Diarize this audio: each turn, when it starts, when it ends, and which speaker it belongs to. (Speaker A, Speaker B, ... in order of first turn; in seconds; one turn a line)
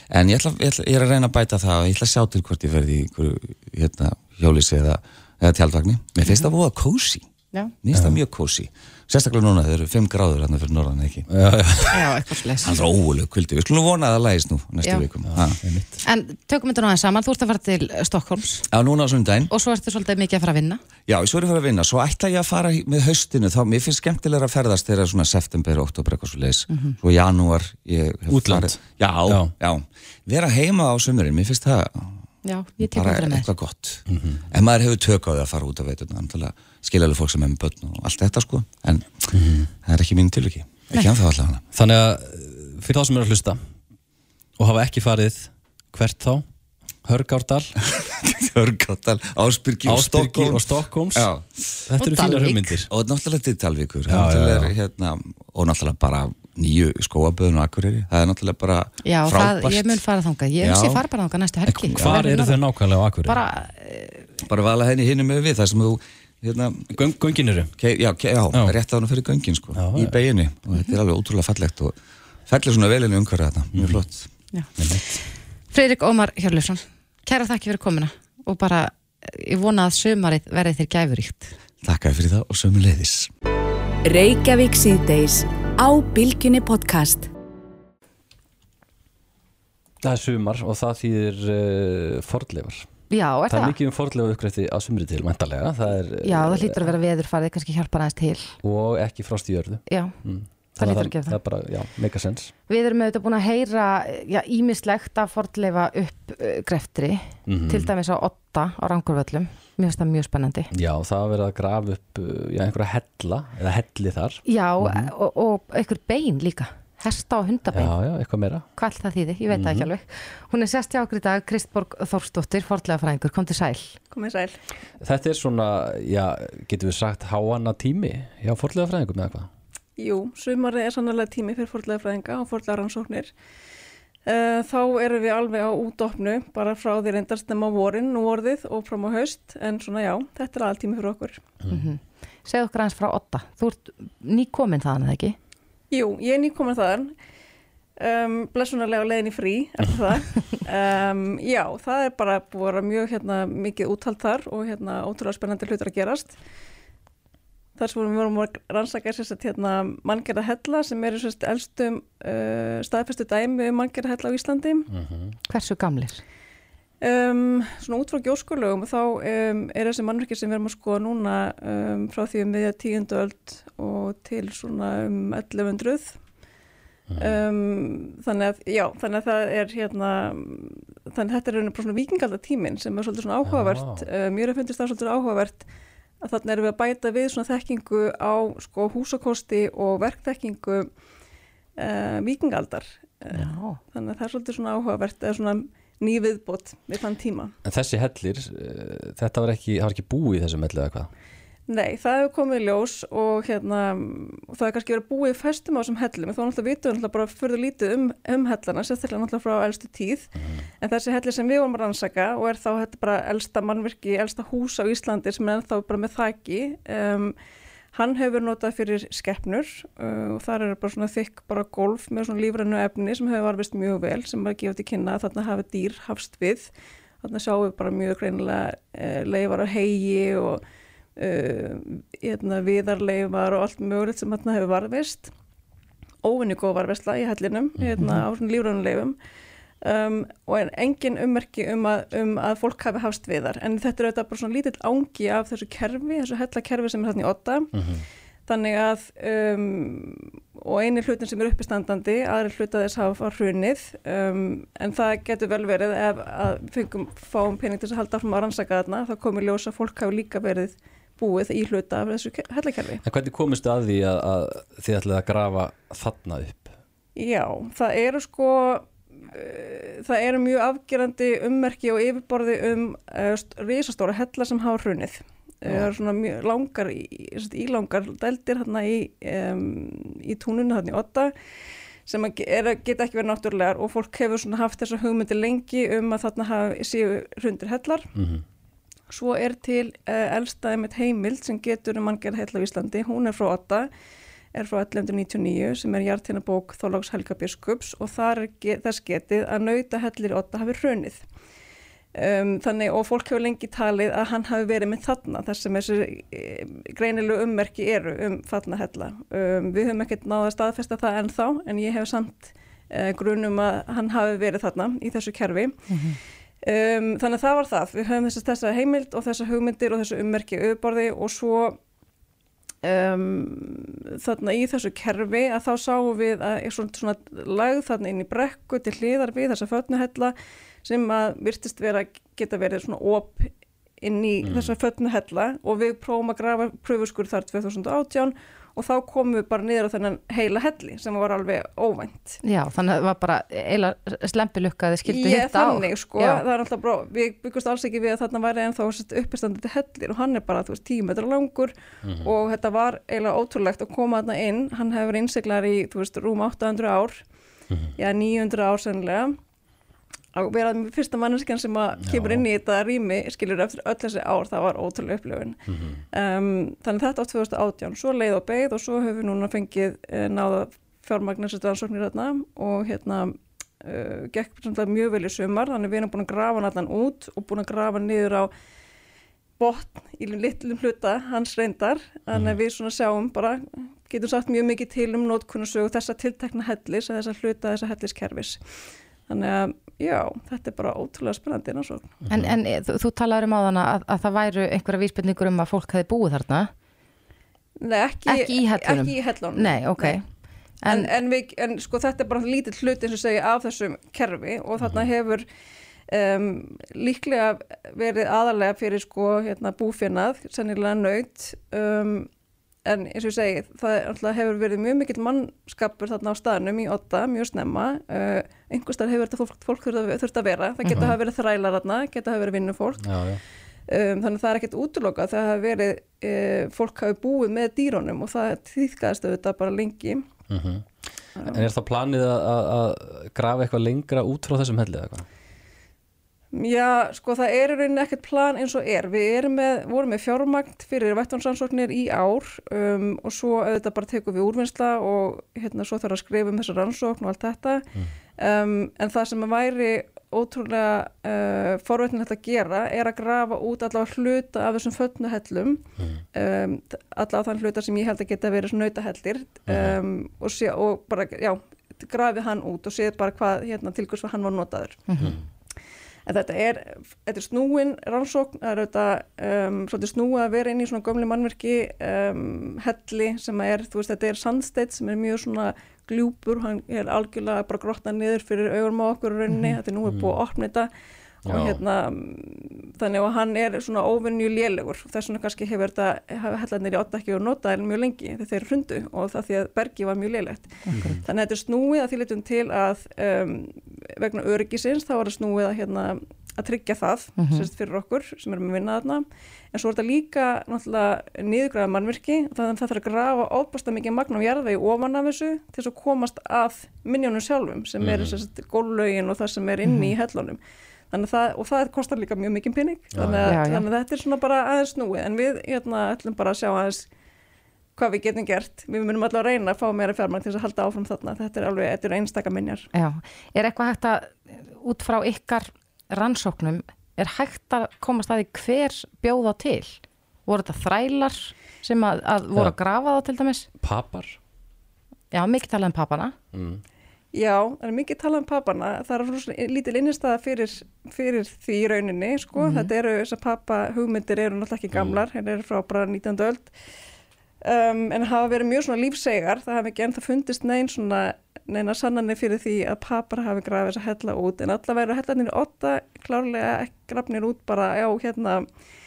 Speaker A: 0.1-7.3
Speaker A: 7.8-11.3
Speaker B: 7.9-8.2
Speaker B: 11.3-12.1
Speaker C: 11.9-12.8
Speaker A: 12.6-15.6
Speaker B: 15.3-16.0
Speaker C: 16.1-18.7
Speaker A: 18.7-19.5
Speaker C: 19.5-20.8
Speaker A: 21.1-32.2
Speaker C: 26.7-27.0
Speaker B: 28.3-29.5
Speaker C: 32.4-33.5
Speaker A: 32.8-41.6
Speaker B: 34.1-34.4
Speaker B: 39.3-39.7
Speaker B: 41.7-43.6
Speaker B: 44.6-46.5
Speaker B: 47.0-47.7
Speaker A: 48.0-51.9
Speaker B: 49.9-51.3
Speaker B: 51.9-52.9
Speaker C: 52.0-52.8
Speaker A: 52.9-60.0
Speaker B: 54.1-54.7
Speaker C: 59.0-62.6
Speaker A: 60.6-61.0
Speaker B: 61.7-63.4
Speaker C: 63.2-64.3
Speaker A: 64.4-67.0
Speaker B: 66.9-67.7
Speaker A: 67.8-72.0
Speaker B: 69.8-70.2
Speaker A: 72.5-74.3
Speaker B: 73.7-74.0
Speaker C: 74.5-75.0
Speaker B: 74.8-75.0
Speaker C: 75.7-81.6
Speaker A: 81.8-83.3
Speaker D: 84.0-87.3
Speaker B: 90.0-92.9
Speaker C: 93.1-93.8
Speaker B: 93.5-96.9
Speaker C: 96.2-98.5
Speaker B: 98.6-102.5
Speaker C: 99.9-100.2
Speaker C: 100.8-101.4
Speaker C: 102.7-110.7
Speaker B: 107.5-107.9
Speaker B: 110.7-115.1
Speaker C: 114.5-117.9
Speaker B: 117.7-118.7
Speaker C: 118.8-124.0
Speaker B: 119.5-119.9
Speaker E: 124.1-124.6
Speaker B: 125.0-129.5
Speaker E: 130.0-133.3
Speaker E: 134.3-141.4
Speaker C: 141.7-145.4
Speaker E: 145.9-147.1
Speaker E: 148.0-156.3
Speaker E: 157.8-164.9
Speaker B: 164.9-165.3
Speaker C: 165.5-166.2
Speaker E: 167.0-176.2
Speaker B: 177.1-177.4
Speaker E: 177.2-185.7
Speaker B: 183.4-184.1
Speaker E: 186.2-190.9
Speaker E: 191.8-197.5
Speaker C: 193.3-193.8
Speaker B: 197.7-201.1
Speaker E: 201.7-210.3
Speaker B: 210.4-210.7
Speaker E: 210.8-217.4
Speaker E: 217.9-226.7
Speaker E: 227.2-230.6
Speaker E: 231.2-235.3
Speaker E: 236.2-239.2
Speaker B: 237.8-238.0
Speaker C: 238.0-238.3
Speaker E: 239.8-247.7
Speaker B: 247.7-248.1
Speaker E: 248.5-263.0
Speaker B: 263.0-266.7
Speaker E: 267.2-281.3
Speaker E: 282.1-288.1
Speaker B: 288.1-288.4
Speaker E: 289.1-293.9
Speaker E: 294.6-301.2
Speaker E: 302.1-315.8
Speaker C: 315.9-316.2
Speaker E: 316.6-321.8
Speaker E: 322.8-342.4
Speaker B: 334.4-334.7
Speaker C: 342.4-346.4
Speaker E: 345.1-357.2
Speaker B: 352.0-352.3
Speaker E: 358.0-359.4
Speaker E: 360.3-365.6
Speaker B: 362.0-362.4
Speaker B: 365.7-366.0
Speaker E: 366.1-378.5
Speaker E: 379.6-388.6
Speaker E: 389.3-392.2
Speaker B: 392.3-392.6
Speaker C: 392.3-396.7
Speaker E: 397.8-400.2
Speaker C: 398.3-400.3
Speaker C: 400.8-401.1
Speaker E: 400.9-405.5
Speaker B: 404.8-405.1
Speaker E: 406.1-412.3
Speaker E: 412.9-423.1
Speaker C: 420.8-421.2
Speaker B: 423.0-423.4
Speaker E: 423.9-430.3
Speaker B: 430.5-430.9
Speaker B: 431.4-435.3
Speaker E: 436.5-447.9
Speaker E: 448.4-465.1
Speaker B: 456.0-456.2
Speaker B: 459.7-460.0
Speaker C: 465.1-465.4
Speaker B: 465.2-465.4
Speaker E: 466.3-480.9
Speaker C: 479.5-479.8
Speaker B: 480.1-480.4
Speaker E: 481.4-510.6
Speaker B: 481.5-481.8
Speaker C: 490.9-491.2
Speaker B: 490.9-491.2
Speaker C: 497.4-497.7
Speaker B: 508.0-508.4
Speaker C: 509.9-510.1
Speaker E: 511.1-517.1
Speaker B: 513.1-513.5
Speaker C: 513.5-513.9
Speaker E: 518.0-522.9
Speaker C: 522.9-533.7
Speaker B: 533.8-534.4
Speaker C: 535.3-536.3
Speaker B: 536.5-536.8
Speaker E: 537.3-546.7
Speaker C: 542.6-542.9
Speaker B: 544.9-545.2
Speaker E: 547.6-558.6